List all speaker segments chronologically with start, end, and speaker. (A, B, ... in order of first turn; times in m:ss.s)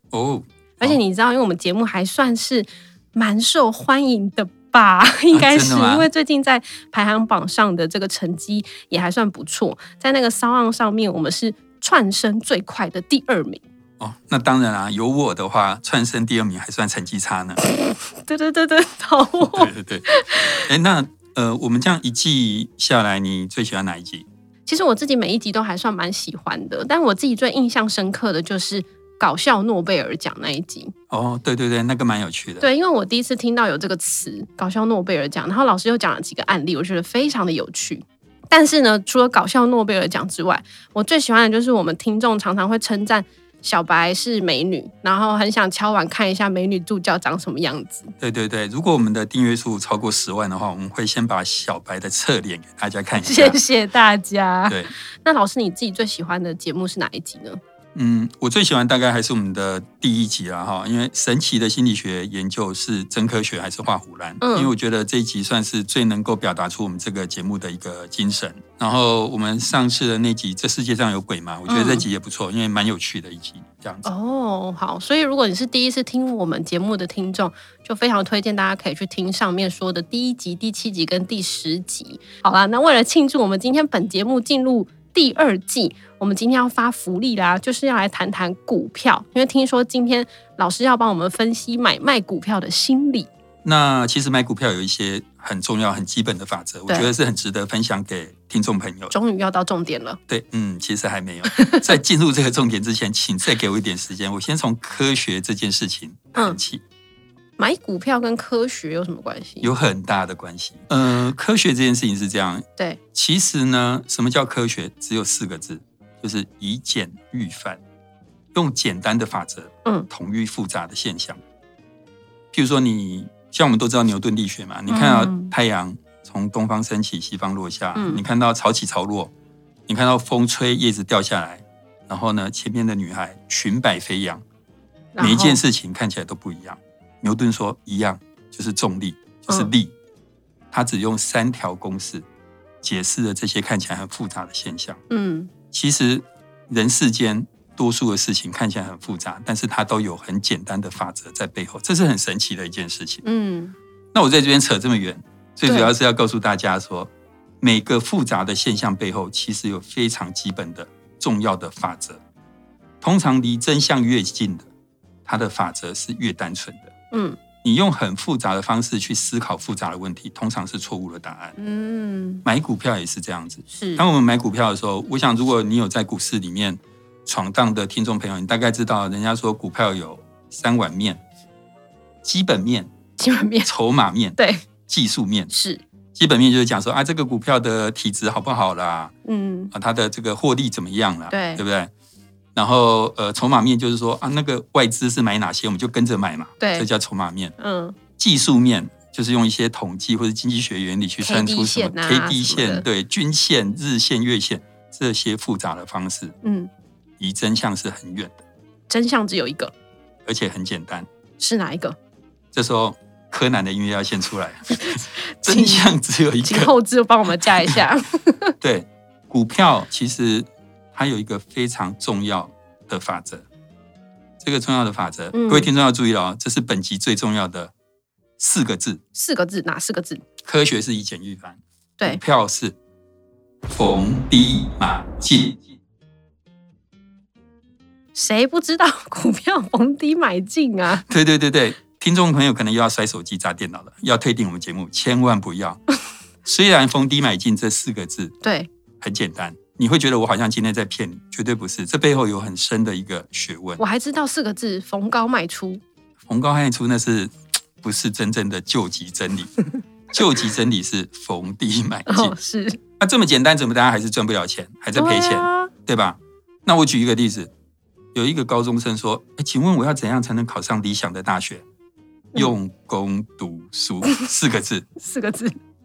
0:00.1-0:01.0 A
0:00.8-0:13.6 B
0:05.3-0:06.1 A
0:14.0-0:17.6 A
0:17.6-0:20.6 B
0:19.4-0:24.2 A
0:24.6-0:30.9 B
0:31.1-0:32.7 A
0:32.6-0:48.1 B
0:48.2-0:53.6 A
0:53.2-0:57.6 B
0:54.7-0:54.9 A
0:57.9-1:14.1 A
1:04.4-1:04.7 B
1:11.7-1:12.0 B
1:14.0-1:33.3 B
1:33.6-1:39.1 A
1:39.1-1:40.2 B
1:40.3-1:46.8 A
1:41.5-1:41.8 B
1:47.6-1:49.7 B
1:49.6-1:57.8 A
1:58.5-2:01.4 A
2:02.5-2:09.3 A
2:04.9-2:05.5 B
2:08.0-2:08.2 B
2:09.9-2:14.4 A
2:15.1-2:15.6 B
2:15.2-2:19.9 A
2:20.7-2:22.2 A
2:22.8-2:25.0 A
2:25.1-2:25.5 B
2:25.7-2:33.2 A
2:33.2-2:33.7 B
2:34.1-2:42.2 A
2:35.6-2:35.9 B
2:43.0-2:44.7 A
2:45.2-2:46.9 A
2:47.1-2:47.4 B
2:47.6-2:51.6 A
2:51.6-2:52.4 B
2:52.4-3:01.2 A
2:53.7-2:54.0 B
3:02.2-3:02.9 A
3:03.2-3:03.7 B
3:03.6-3:05.5 A
3:04.4-3:04.6 B
3:05.5-3:05.8 B
3:06.1-3:09.1 A
3:09.2-3:09.7 B
3:09.7-3:11.9 A
3:11.3-3:11.6 B
3:12.5-3:17.5 A
3:16.6-3:16.9 B
3:17.6-3:18.0 B
3:18.2-3:26.3 A
3:21.2-3:22.8 B
3:26.4-3:26.7 B
3:27.2-3:28.4 A
3:28.9-3:29.7 B
3:30.2-3:31.1 A
3:31.4-3:32.0 B
3:32.5-3:36.7 A
3:34.9-3:35.9 B
3:36.4-3:38.5 B
3:38.6-3:43.4 A
3:44.4-3:47.7 A
3:45.3-3:45.7 B
3:48.4-3:49.0 A
3:49.1-3:50.2 B
3:50.4-3:52.7 A
3:53.7-3:55.6 A
3:58.1-4:01.0 B
4:00.9-4:05.8 A
4:06.4-4:08.3 A
4:08.4-4:08.7 B
4:09.0-4:13.8 A
4:13.8-4:15.8 B
4:16.3-4:19.5 A
4:20.1-4:22.4 A
4:22.1-4:22.8 B
4:23.0-4:27.5 A
4:25.0-4:25.7 B
4:28.1-4:31.6 A
4:32.3-4:34.9 A
4:35.0-4:35.6 B